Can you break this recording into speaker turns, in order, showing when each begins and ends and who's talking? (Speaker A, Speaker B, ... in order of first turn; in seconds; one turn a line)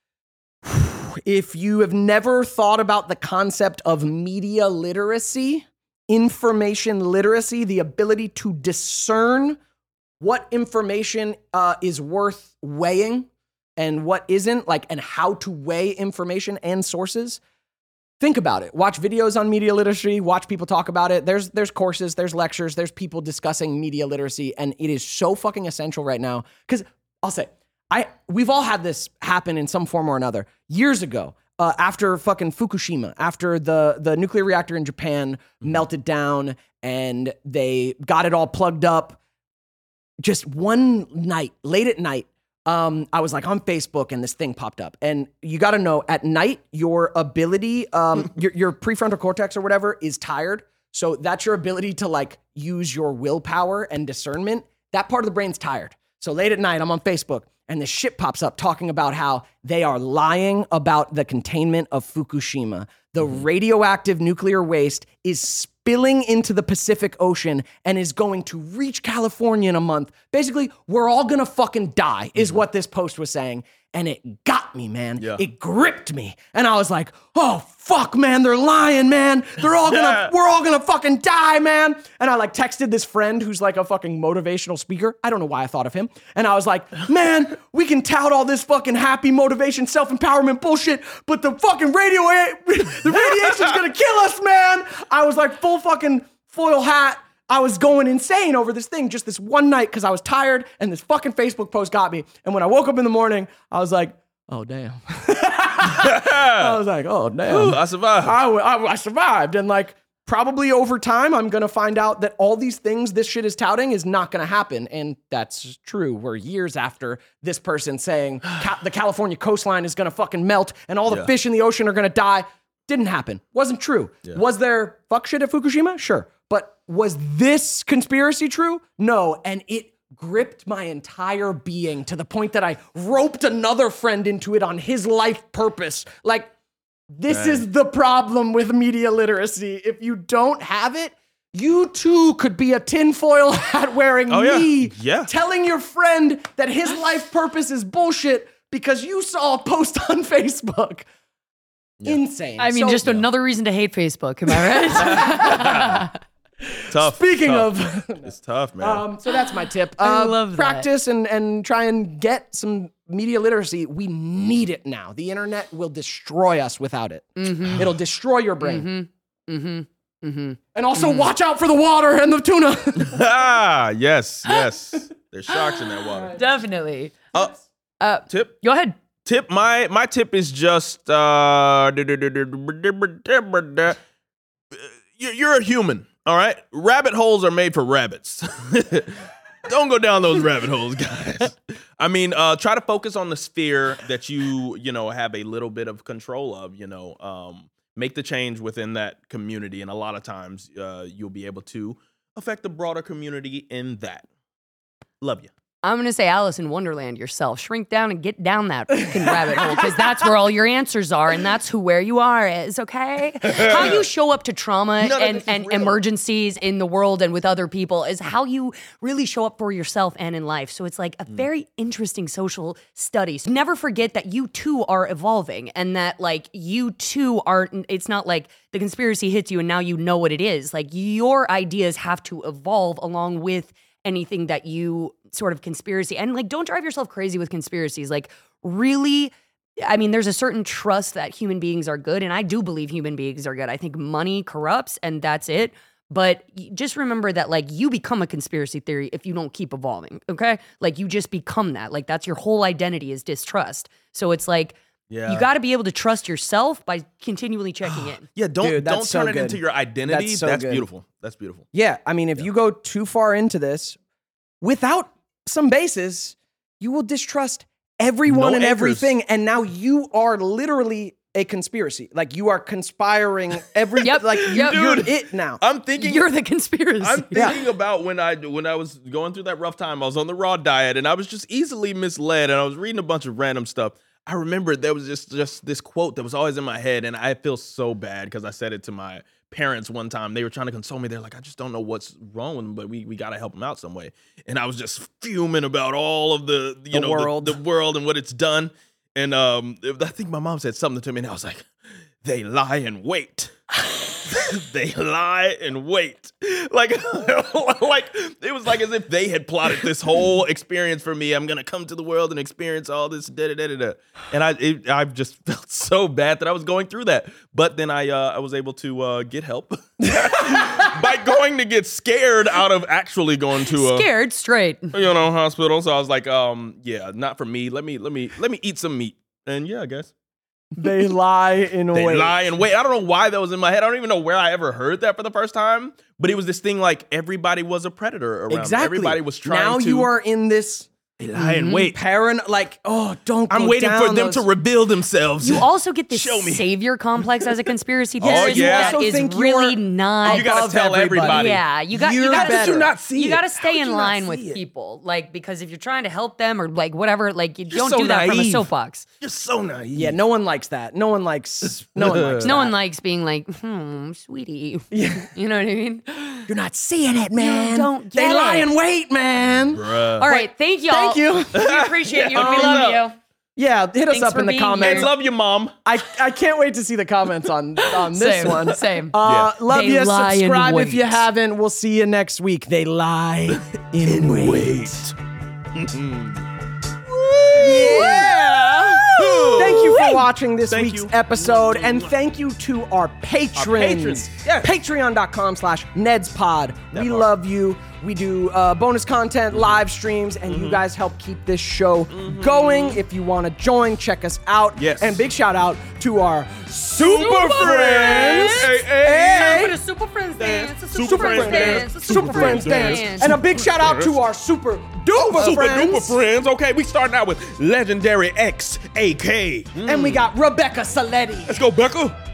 Speaker A: 0.6-9.6
Speaker A: 10.2-17.4
Speaker A: 18.2-39.2
Speaker A: 40.2-136.5
Speaker B: 79.8-80.3
Speaker B: 105.8-106.8
Speaker B: 107.5-108.4
Speaker A: 137.1-151.1
Speaker B: 137.3-137.6
Speaker B: 144.3-145.3
Speaker A: 152.0-153.1
Speaker C: 152.6-156.1
Speaker A: 154.9-156.0
Speaker B: 155.0-156.1
Speaker A: 156.8-168.9
Speaker B: 156.9-159.0
Speaker C: 160.0-160.9
Speaker C: 167.4-167.9
Speaker C: 168.6-171.3
Speaker A: 170.7-173.3
Speaker B: 173.0-176.4
Speaker C: 175.5-175.8
Speaker C: 176.3-177.2
Speaker C: 178.0-178.9
Speaker B: 178.3-178.6
Speaker B: 179.2-184.0
Speaker B: 184.7-204.3
Speaker B: 205.2-205.5
Speaker C: 205.8-258.3
Speaker A: 209.3-209.8
Speaker B: 213.4-214.1
Speaker B: 215.0-216.0
Speaker B: 255.1-255.5
Speaker B: 258.3-261.7
Speaker A: 258.6-260.9
Speaker A: 261.7-264.0
Speaker A: 264.6-275.6
Speaker B: 268.3-269.1
Speaker B: 274.0-276.3
Speaker C: 274.0-275.1
Speaker C: 276.0-277.6
Speaker B: 277.0-301.7
Speaker A: 296.9-297.6
Speaker B: 302.2-303.5
Speaker B: 304.2-324.1
Speaker A: 320.1-320.7
Speaker C: 323.7-324.9
Speaker B: 324.9-330.1
Speaker A: 330.8-332.5
Speaker B: 331.9-340.1
Speaker A: 338.5-340.9
Speaker B: 341.2-342.0
Speaker C: 341.4-341.9
Speaker A: 341.9-344.5
Speaker B: 343.5-346.7
Speaker C: 345.4-350.5
Speaker B: 347.2-349.0
Speaker A: 348.2-352.9
Speaker B: 350.2-354.6
Speaker C: 351.2-359.1
Speaker B: 357.7-358.7
Speaker B: 359.2-360.2
Speaker A: 359.9-362.7
Speaker B: 362.0-362.6
Speaker C: 362.4-366.5
Speaker A: 364.9-365.3
Speaker A: 366.5-371.6
Speaker C: 367.4-368.7
Speaker B: 369.5-370.3
Speaker C: 370.2-373.2
Speaker B: 371.5-373.0
Speaker A: 372.4-373.0
Speaker A: 373.6-375.1
Speaker C: 374.1-375.1
Speaker B: 374.8-375.8
Speaker A: 375.9-385.0
Speaker C: 378.1-381.2
Speaker B: 379.2-379.6
Speaker B: 383.5-385.1
Speaker B: 385.7-386.4
Speaker B: 387.1-392.1
Speaker A: 387.5-409.8
Speaker B: 393.6-394.7
Speaker B: 396.9-397.3
Speaker B: 400.5-400.8
Speaker B: 402.1-403.0
Speaker B: 404.8-405.2
Speaker B: 407.0-409.7
Speaker C: 407.1-408.7
Speaker C: 409.3-413.4
Speaker B: 410.4-414.2
Speaker A: 411.0-416.2
Speaker B: 415.3-420.3
Speaker A: 419.8-421.6
Speaker B: 421.5-422.2